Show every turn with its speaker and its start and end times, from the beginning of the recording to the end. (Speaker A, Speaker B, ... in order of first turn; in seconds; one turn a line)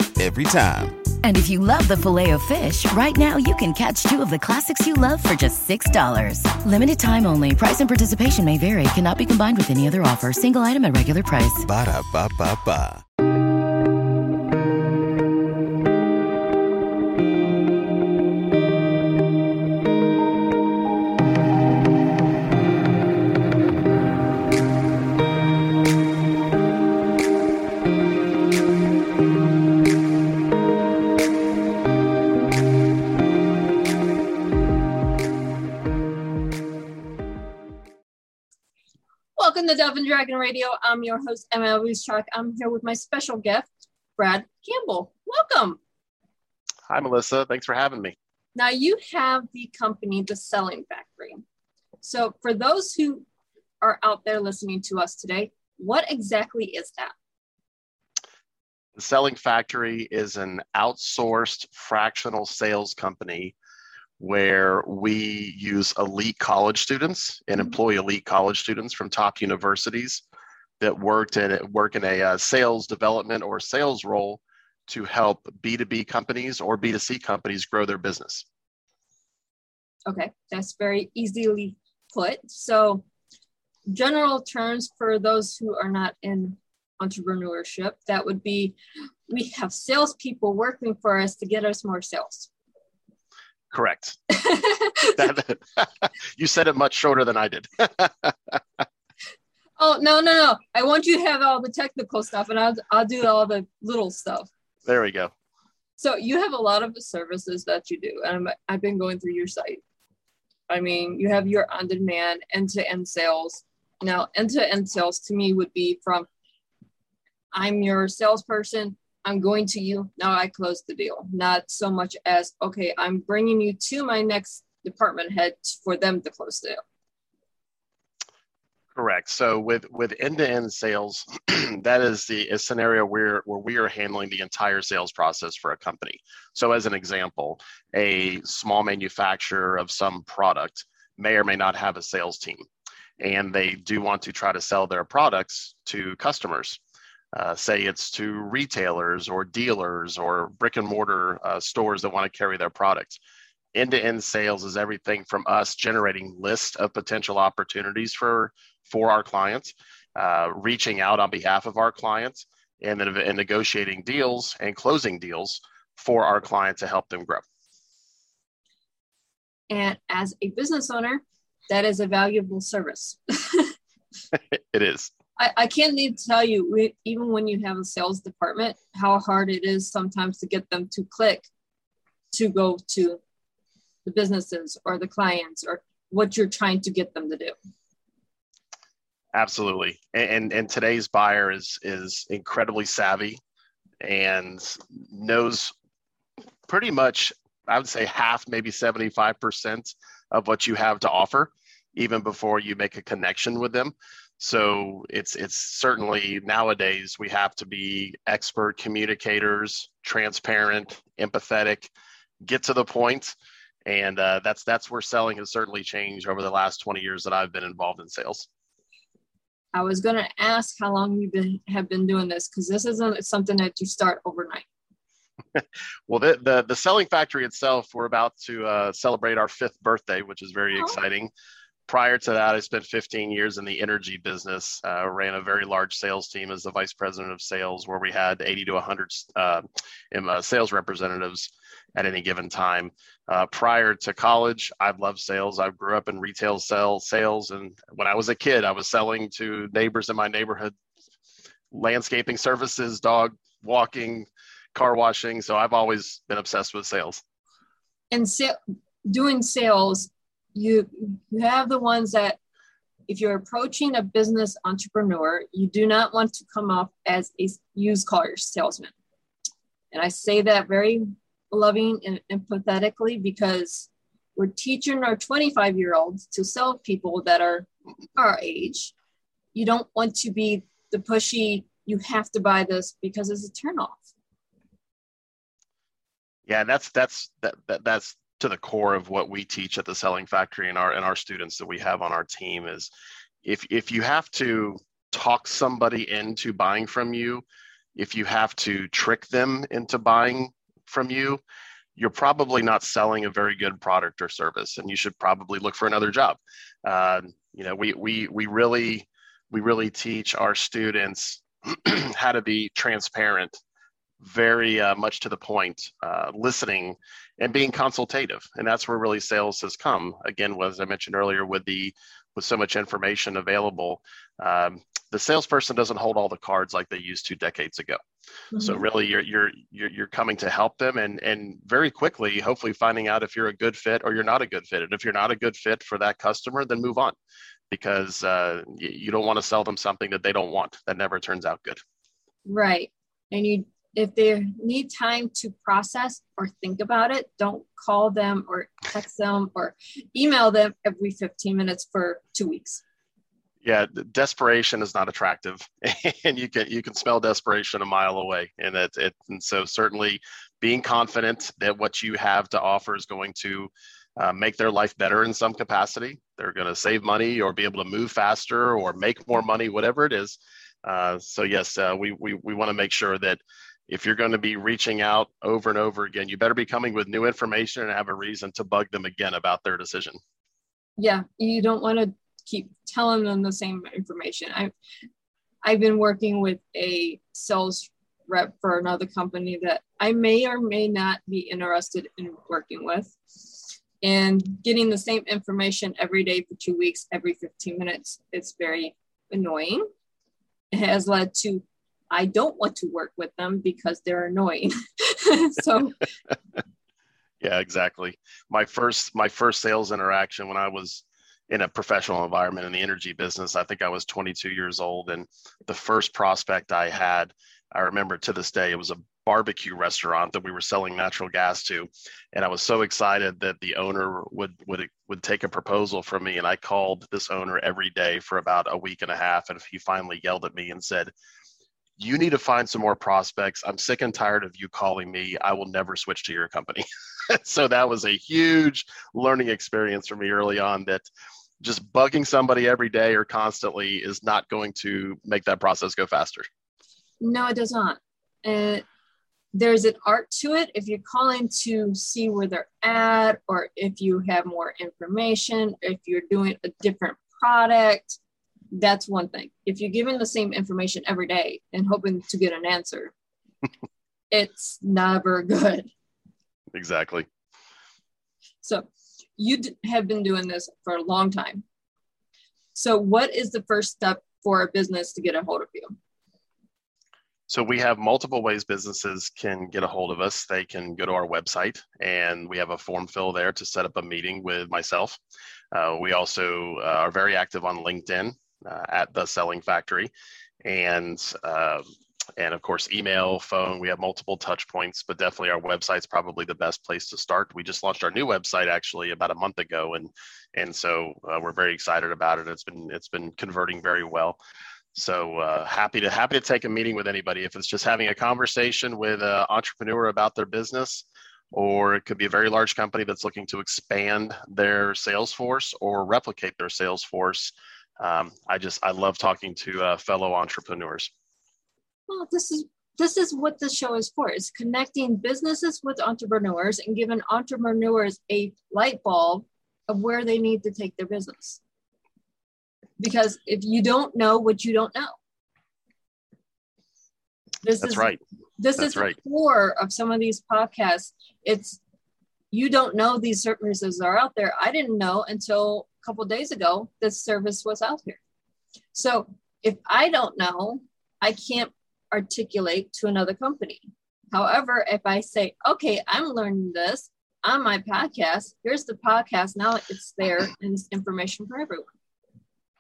Speaker A: 0.2-1.0
Speaker B: 1.2-11.7
Speaker A: 11.6-13.0
Speaker C: 39.4-45.8
Speaker D: 46.9-48.2
Speaker C: 48.5-51.4
Speaker C: 52.0-53.3
Speaker C: 53.8-57.1
Speaker D: 59.0-63.5
Speaker D: 64.2-70.2
Speaker D: 70.8-78.5
Speaker C: 80.1-83.0
Speaker C: 83.9-92.5
Speaker D: 93.7-94.2
Speaker C: 94.3-95.2
Speaker D: 95.2-98.6
Speaker C: 99.8-104.5
Speaker D: 104.9-105.3
Speaker C: 106.0-109.8
Speaker C: 110.7-116.3
Speaker C: 117.5-126.8
Speaker D: 128.9-142.7
Speaker D: 143.2-146.8
Speaker D: 147.3-153.2
Speaker D: 153.7-167.4
Speaker C: 169.7-173.7
Speaker D: 174.3-175.1
Speaker C: 175.4-181.5
Speaker C: 182.3-183.2
Speaker C: 184.1-187.6
Speaker D: 189.3-193.4
Speaker D: 194.0-195.7
Speaker D: 196.7-211.9
Speaker D: 212.4-218.5
Speaker C: 219.7-224.7
Speaker D: 225.5-231.3
Speaker D: 231.9-250.7
Speaker D: 251.7-257.2
Speaker C: 258.1-262.4
Speaker C: 263.1-268.9
Speaker C: 269.9-278.9
Speaker C: 279.6-284.0
Speaker D: 286.5-292.9
Speaker D: 293.4-297.4
Speaker D: 298.0-301.4
Speaker D: 302.0-313.6
Speaker D: 314.2-328.0
Speaker C: 328.5-328.8
Speaker D: 328.6-337.2
Speaker D: 337.7-341.8
Speaker C: 342.4-352.8
Speaker D: 353.6-380.2
Speaker C: 381.0-384.7
Speaker C: 385.6-399.9
Speaker C: 400.7-406.0
Speaker D: 407.4-431.1
Speaker D: 432.0-441.1
Speaker D: 441.6-446.5
Speaker C: 447.2-448.9
Speaker C: 449.5-458.2
Speaker C: 458.7-463.1
Speaker C: 464.3-465.9
Speaker D: 466.7-467.3
Speaker C: 468.6-471.6
Speaker C: 472.8-475.9
Speaker D: 477.5-485.2
Speaker D: 485.7-490.1
Speaker D: 490.6-491.8
Speaker D: 492.4-504.4
Speaker D: 504.9-521.1
Speaker C: 522.1-531.6
Speaker C: 533.0-535.2
Speaker C: 537.6-541.8
Speaker D: 537.8-538.2
Speaker D: 538.8-539.1
Speaker C: 542.5-548.2
Speaker C: 548.9-561.9